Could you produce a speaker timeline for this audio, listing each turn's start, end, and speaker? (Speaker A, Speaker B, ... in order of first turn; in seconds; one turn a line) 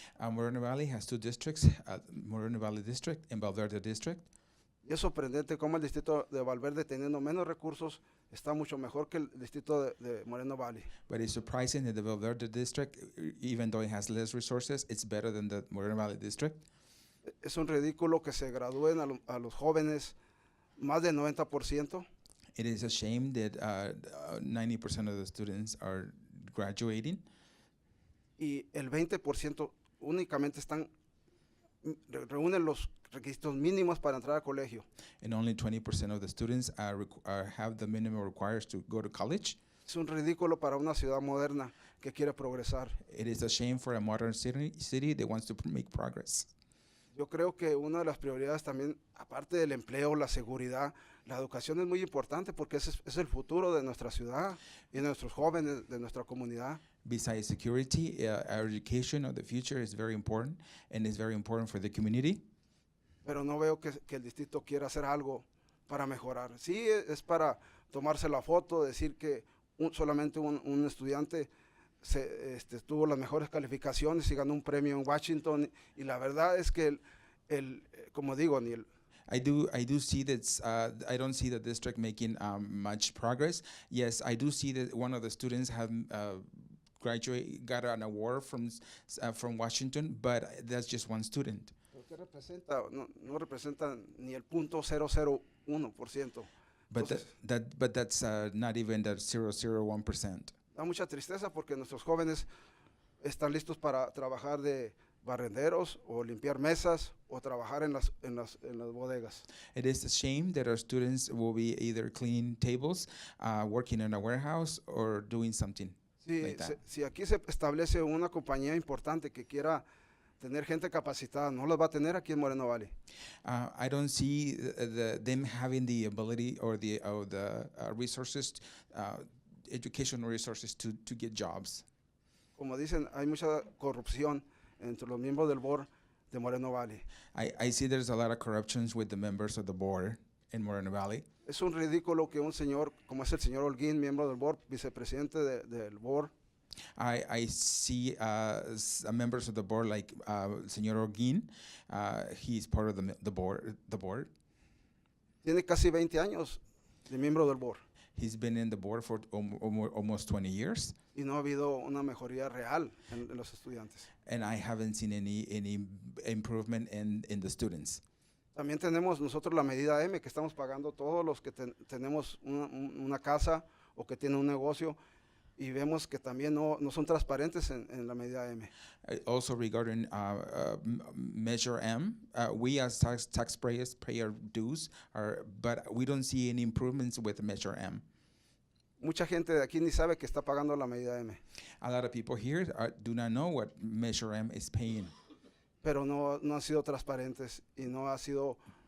Speaker A: 0.2-4.2
Speaker B: 4.8-10.9
Speaker A: 11.1-16.6
Speaker B: 17.4-20.1
Speaker B: 20.8-22.1
Speaker A: 22.6-27.2
Speaker B: 28.4-30.9
Speaker B: 31.8-34.9
Speaker A: 35.2-39.6
Speaker B: 39.9-43.0
Speaker A: 43.0-46.5
Speaker B: 47.1-56.8
Speaker A: 57.0-62.4
Speaker B: 63.2-71.5
Speaker B: 72.0-78.8
Speaker A: 79.3-91.7
Speaker B: 91.9-97.2
Speaker A: 96.9-100.5
Speaker B: 100.7-102.5
Speaker B: 103.2-109.5
Speaker A: 109.7-116.8
Speaker B: 116.2-119.8
Speaker B: 120.4-122.9
Speaker A: 123.4-131.8
Speaker B: 132.6-137.0
Speaker A: 137.3-141.2
Speaker B: 141.4-146.3
Speaker A: 147.0-154.3
Speaker B: 155.4-157.8
Speaker A: 158.2-160.9
Speaker B: 161.1-164.1
Speaker A: 164.2-168.0
Speaker B: 168.5-175.0
Speaker B: 175.6-178.7
Speaker A: 179.1-188.0
Speaker B: 189.0-191.4
Speaker A: 191.8-195.1
Speaker B: 195.8-198.6